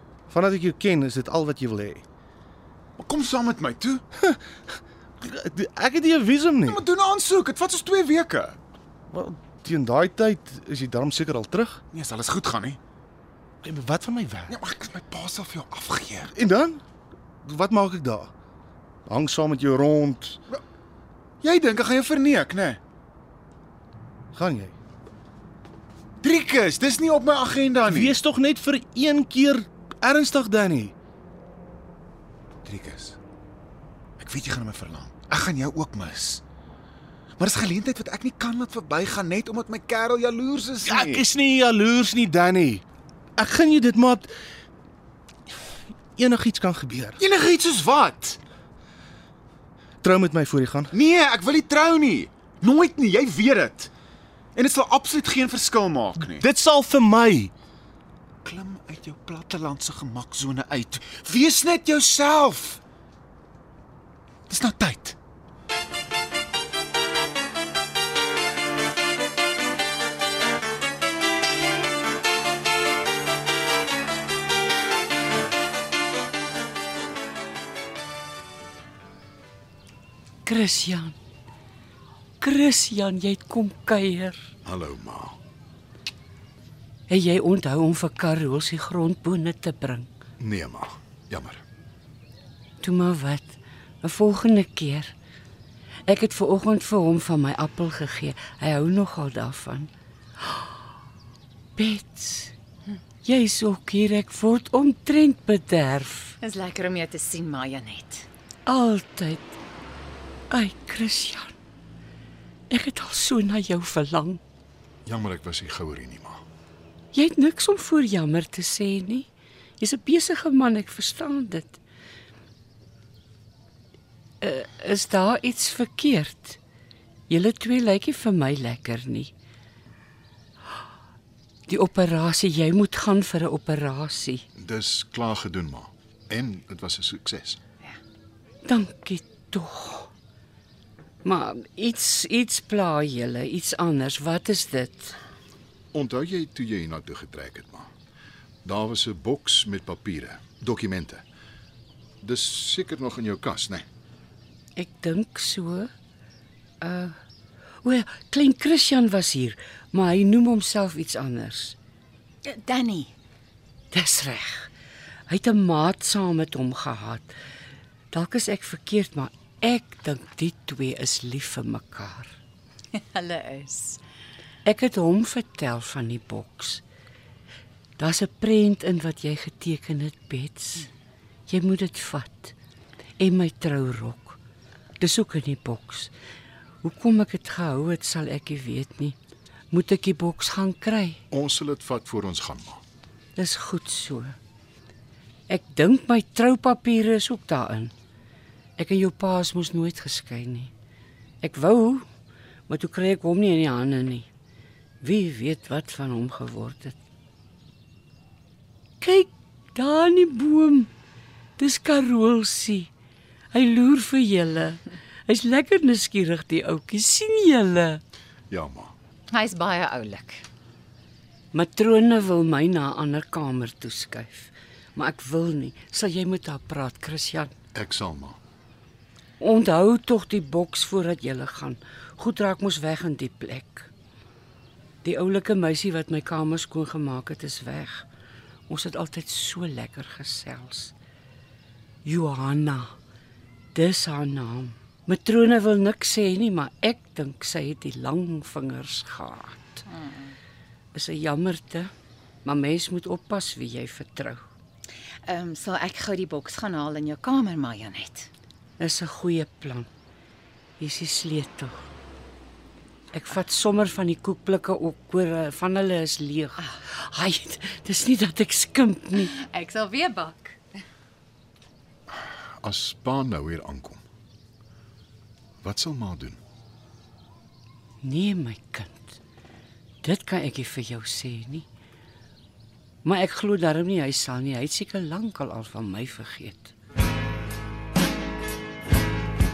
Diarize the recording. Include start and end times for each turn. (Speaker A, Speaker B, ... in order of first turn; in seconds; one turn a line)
Speaker A: 0.3-2.0
Speaker B: 3.0-4.0
Speaker A: 4.2-6.8
Speaker B: 6.7-8.6
Speaker A: 9.1-11.8
Speaker B: 11.9-12.8
Speaker A: 13.6-14.6
Speaker B: 14.5-16.3
Speaker A: 16.3-16.8
Speaker A: 17.4-18.3
Speaker A: 19.1-20.4
Speaker B: 21.4-22.8
Speaker A: 24.3-24.7
Speaker B: 26.2-28.2
Speaker A: 27.9-30.9
Speaker B: 32.6-33.2
Speaker B: 34.2-36.4
Speaker B: 37.4-41.2
Speaker A: 40.8-42.8
Speaker A: 43.4-44.3
Speaker A: 46.1-47.2
Speaker B: 47.2-48.4
Speaker A: 50.0-50.9
Speaker B: 50.9-53.9
Speaker B: 54.5-56.4
Speaker A: 56.2-57.5
Speaker B: 58.4-62.8
Speaker B: 64.5-65.2
Speaker C: 80.5-81.1
Speaker C: 82.4-84.5
Speaker D: 84.6-85.4
Speaker C: 87.1-90.1
Speaker D: 90.4-91.6
Speaker C: 92.8-95.1
Speaker C: 96.1-99.9
Speaker C: 100.4-100.7
Speaker C: 101.8-102.5
Speaker C: 103.2-106.3
Speaker E: 106.4-108.3
Speaker C: 108.7-109.5
Speaker C: 110.5-111.5
Speaker C: 112.7-114.4
Speaker D: 115.0-116.4
Speaker C: 117.1-119.3
Speaker C: 119.8-121.8
Speaker C: 124.4-126.6
Speaker C: 127.3-129.3
Speaker C: 131.7-134.4
Speaker D: 134.6-137.6
Speaker C: 138.7-140.1
Speaker C: 141.2-145.1
Speaker D: 145.9-147.9
Speaker D: 148.6-151.2
Speaker D: 152.2-153.8
Speaker C: 154.8-155.9
Speaker C: 156.8-157.1
Speaker C: 157.8-161.8
Speaker E: 162.4-163.1
Speaker C: 163.9-164.7
Speaker C: 165.3-167.3
Speaker C: 168.1-172.3
Speaker E: 172.9-174.0
Speaker C: 174.7-176.8
Speaker C: 178.0-180.8
Speaker C: 181.5-182.5
Speaker C: 183.2-184.4
Speaker C: 185.0-186.1
Speaker C: 186.8-189.1
Speaker C: 189.7-191.2
Speaker D: 191.3-192.8
Speaker C: 193.3-194.3
Speaker C: 195.5-197.9
Speaker C: 198.8-200.7
Speaker C: 201.4-202.0
Speaker C: 202.7-204.3
Speaker C: 205.0-207.0
Speaker C: 209.0-210.9
Speaker C: 211.6-212.9
Speaker C: 213.5-218.0
Speaker D: 218.5-218.9
Speaker E: 219.3-220.4
Speaker C: 221.5-227.5
Speaker D: 227.7-228.4
Speaker C: 229.4-233.9
Speaker C: 235.0-238.0
Speaker C: 238.7-240.9
Speaker C: 242.0-242.9
Speaker C: 243.7-249.8
Speaker E: 249.8-250.4
Speaker C: 250.9-251.9
Speaker C: 252.4-254.4
Speaker E: 255.2-258.3
Speaker C: 258.8-259.9
Speaker C: 260.8-261.9
Speaker C: 263.1-269.3
Speaker E: 269.2-270.6
Speaker D: 272.6-274.0
Speaker D: 275.6-276.4
Speaker C: 278.0-279.2
Speaker C: 280.0-281.6
Speaker C: 283.0-286.7